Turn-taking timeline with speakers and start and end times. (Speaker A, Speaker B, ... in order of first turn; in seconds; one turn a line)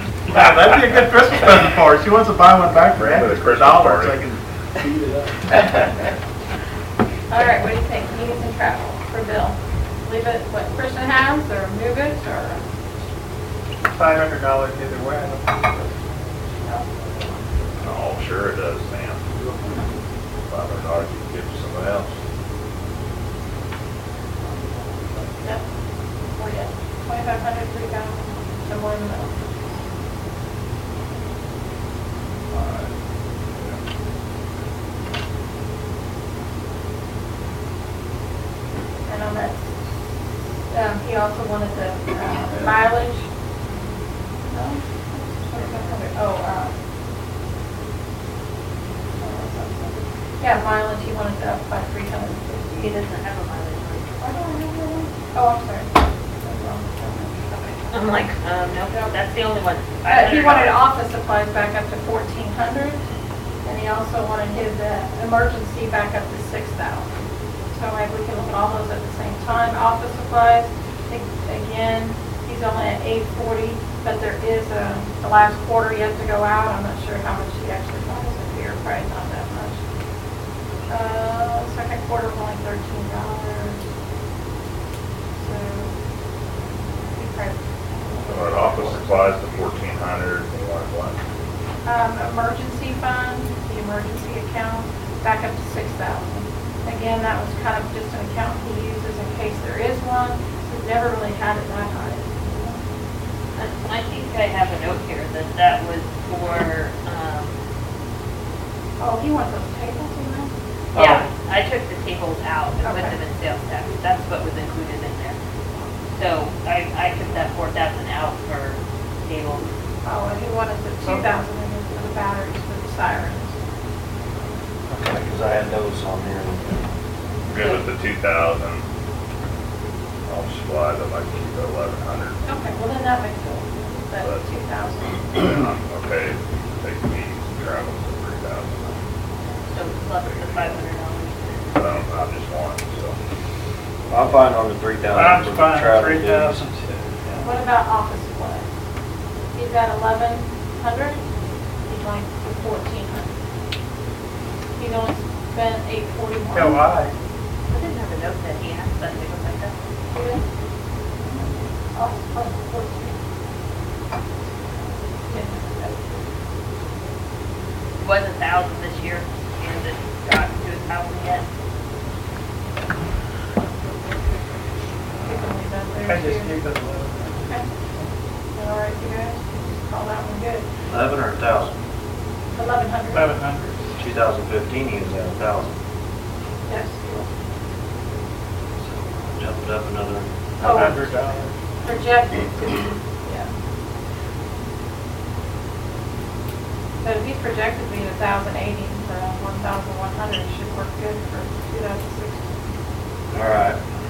Speaker A: 0.3-5.3
Speaker B: 2.9-4.3
Speaker C: 7.3-12.6
Speaker A: 13.9-15.9
Speaker B: 17.8-19.2
Speaker C: 19.6-19.9
Speaker B: 20.5-22.1
Speaker C: 24.4-25.6
Speaker C: 26.3-29.6
Speaker C: 39.1-39.7
Speaker C: 40.7-43.3
Speaker C: 44.4-46.7
Speaker C: 49.2-53.0
Speaker D: 52.8-54.3
Speaker C: 54.2-58.0
Speaker D: 57.5-60.8
Speaker C: 58.9-59.2
Speaker C: 60.0-63.0
Speaker C: 63.6-67.1
Speaker C: 67.7-79.8
Speaker C: 80.9-83.8
Speaker C: 85.4-85.9
Speaker C: 87.1-89.3
Speaker B: 88.2-91.2
Speaker C: 91.8-102.8
Speaker D: 103.5-107.5
Speaker C: 109.0-110.5
Speaker D: 110.9-115.4
Speaker C: 112.8-113.1
Speaker D: 116.1-119.7
Speaker C: 120.0-123.6
Speaker D: 121.0-121.3
Speaker E: 124.9-126.8
Speaker B: 127.5-128.8
Speaker D: 127.5-127.8
Speaker B: 130.3-132.4
Speaker C: 132.4-135.5
Speaker B: 134.2-134.4
Speaker B: 135.4-139.0
Speaker D: 139.7-141.9
Speaker B: 139.8-140.8
Speaker B: 141.7-143.2
Speaker E: 144.1-146.7
Speaker A: 145.1-147.4
Speaker C: 147.4-148.7
Speaker C: 149.5-151.2
Speaker C: 151.9-153.3
Speaker C: 154.8-156.8
Speaker A: 156.5-157.1
Speaker D: 157.7-159.8
Speaker C: 160.1-160.4
Speaker C: 161.2-163.2
Speaker C: 164.7-166.0
Speaker D: 168.0-171.4
Speaker C: 175.2-176.5
Speaker A: 176.0-178.1
Speaker C: 178.5-180.7
Speaker E: 180.9-181.7
Speaker C: 182.5-183.3
Speaker A: 183.1-183.9
Speaker E: 184.0-185.7
Speaker C: 186.7-187.3
Speaker E: 188.8-190.9
Speaker C: 190.6-191.1
Speaker A: 190.6-191.6
Speaker C: 191.8-193.5
Speaker C: 197.0-202.5
Speaker E: 203.3-203.8